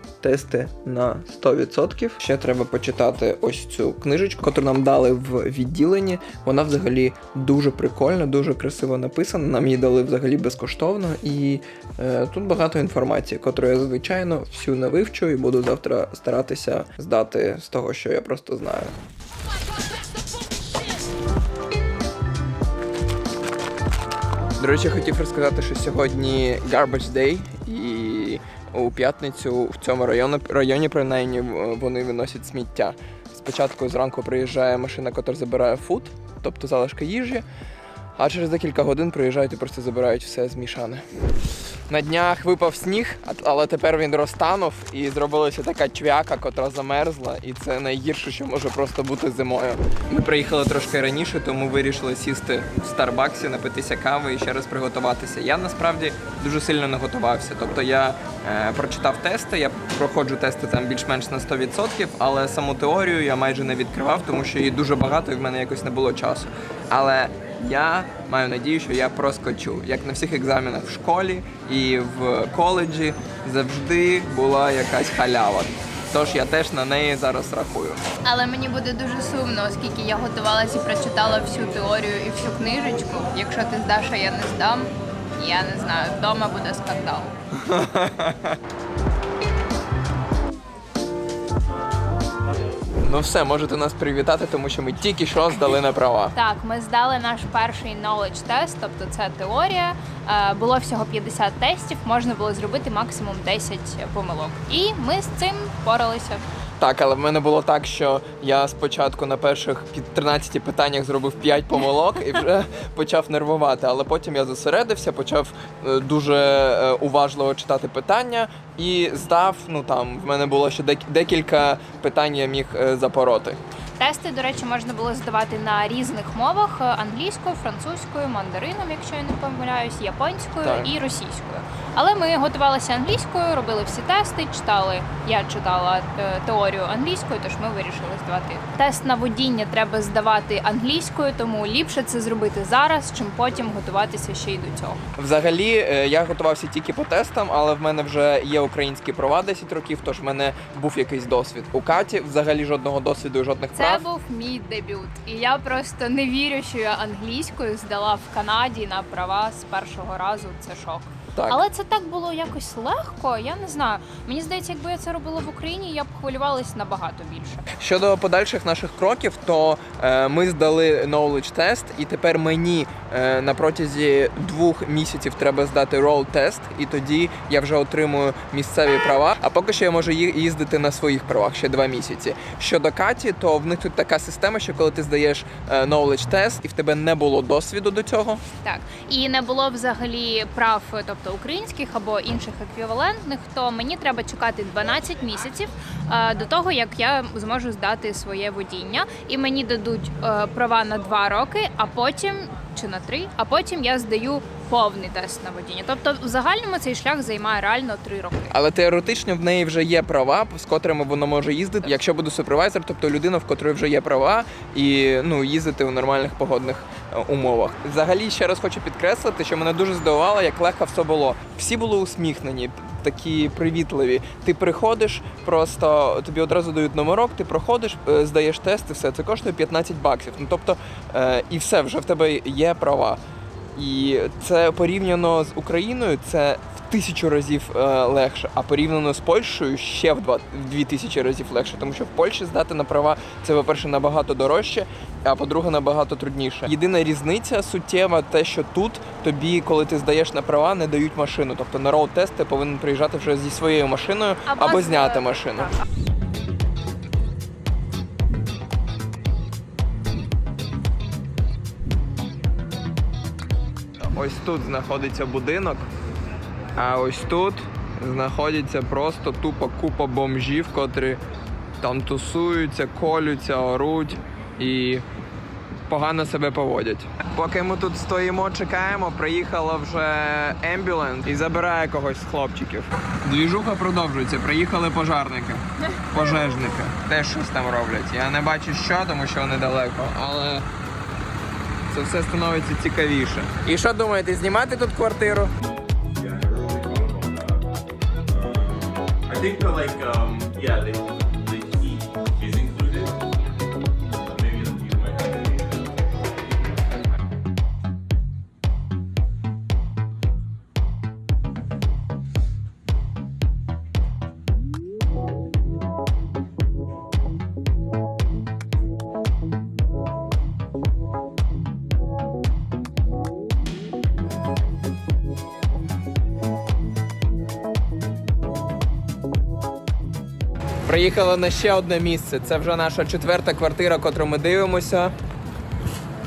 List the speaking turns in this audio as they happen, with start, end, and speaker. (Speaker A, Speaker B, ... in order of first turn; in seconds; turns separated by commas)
Speaker A: 0.2-18.9, Speaker A: 24.6-37.4, Speaker A: 38.2-41.0, Speaker A: 41.9-78.1, Speaker B: 78.2-87.3, Speaker A: 87.5-88.6, Speaker A: 93.0-96.3, Speaker B: 96.3-106.4, Speaker A: 106.8-123.6, Speaker B: 124.0-145.0, Speaker A: 130.6-130.9, Speaker A: 145.2-154.0, Speaker B: 153.7-167.6, Speaker A: 161.3-161.6, Speaker A: 167.8-188.4, Speaker B: 188.6-208.5, Speaker A: 208.5-233.2, Speaker A: 233.7-255.7, Speaker B: 254.5-255.8, Speaker A: 264.0-265.9, Speaker A: 266.8-271.2, Speaker A: 271.8-275.0, Speaker A: 275.9-290.6, Speaker A: 291.9-295.5, Speaker C: 296.1-297.7, Speaker C: 298.3-303.2, Speaker C: 304.1-306.3, Speaker A: 330.8-335.1